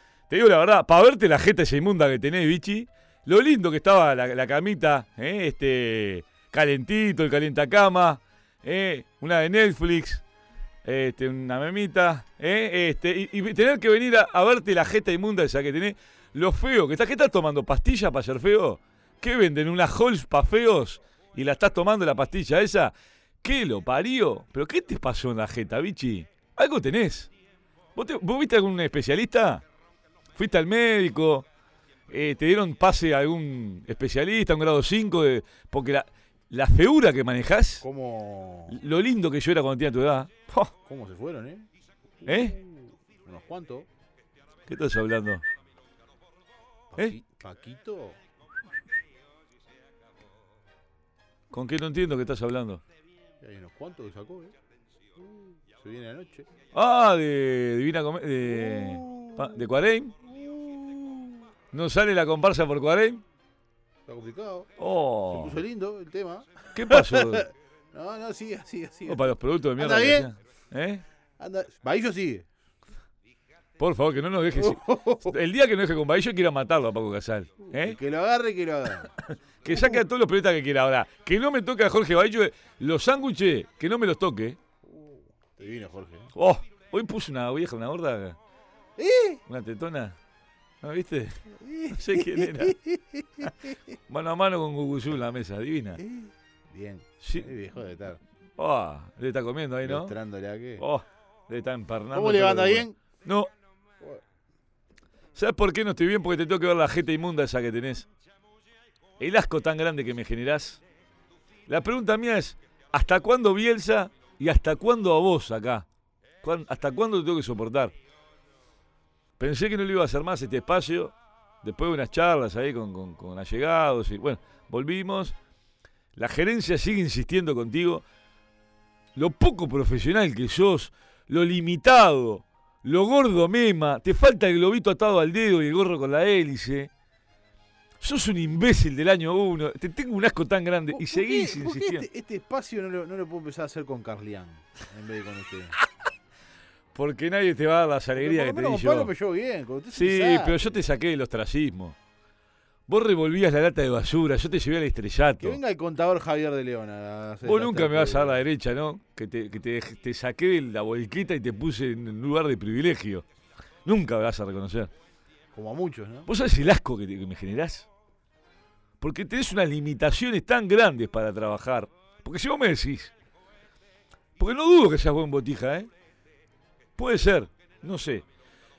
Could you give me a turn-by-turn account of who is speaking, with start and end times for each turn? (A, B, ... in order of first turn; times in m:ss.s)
0:00.3-0:10.2 A
0:10.8-0:27.3 A
0:27.9-0:29.6 A
0:30.3-0:31.4 A
0:32.1-0:37.8 A
0:37.8-0:38.8 B
0:38.7-0:40.7 A
0:40.8-0:41.7 B
0:42.2-0:43.9 B
0:42.2-0:42.6 A
0:44.7-0:45.4 A
0:46.9-0:48.2 B
0:51.5-0:52.8 A
0:53.4-0:54.5 B
0:55.2-0:56.5 B
0:56.7-1:00.1 A
0:58.4-0:59.6 B
1:00.2-1:01.5 B
1:01.7-1:03.2 A
1:04.1-1:04.7 B
1:04.8-1:05.6 A
1:05.3-1:10.3 B
1:06.7-1:07.4 A
1:09.1-1:11.0 A
1:11.4-1:12.5 B
1:13.8-1:18.0 A
1:14.5-1:15.3 B
1:17.7-1:19.1 B
1:19.6-1:24.6 A
1:19.7-1:20.0 B
1:24.8-1:26.3 B
1:26.3-1:28.4 A
1:29.0-1:29.4 B
1:29.5-1:30.2 A
1:30.8-1:32.8 A
1:31.5-1:33.8 B
1:34.1-1:36.0 A
1:36.0-1:38.2 B
1:37.2-1:37.5 A
1:38.6-1:40.2 A
1:39.8-1:40.8 B
1:40.8-1:43.5 A
1:42.1-1:43.0 B
1:45.3-1:48.1 A
1:49.2-1:50.8 A
1:51.7-1:55.8 A
1:56.4-1:57.9 A
1:59.4-2:05.4 A
2:06.1-2:08.0 A
2:09.1-2:16.9 A
2:18.0-2:22.1 A
2:20.9-2:25.7 B
2:26.9-2:29.1 A
2:28.2-2:30.8 B
2:29.9-2:32.0 A
2:32.9-2:35.6 A
2:35.4-2:38.4 B
2:37.4-2:43.2 A
2:43.8-2:44.9 A
2:45.5-2:46.3 B
2:46.3-2:47.9 A
2:49.0-2:53.1 A
2:54.4-2:55.9 A
2:57.0-2:58.2 A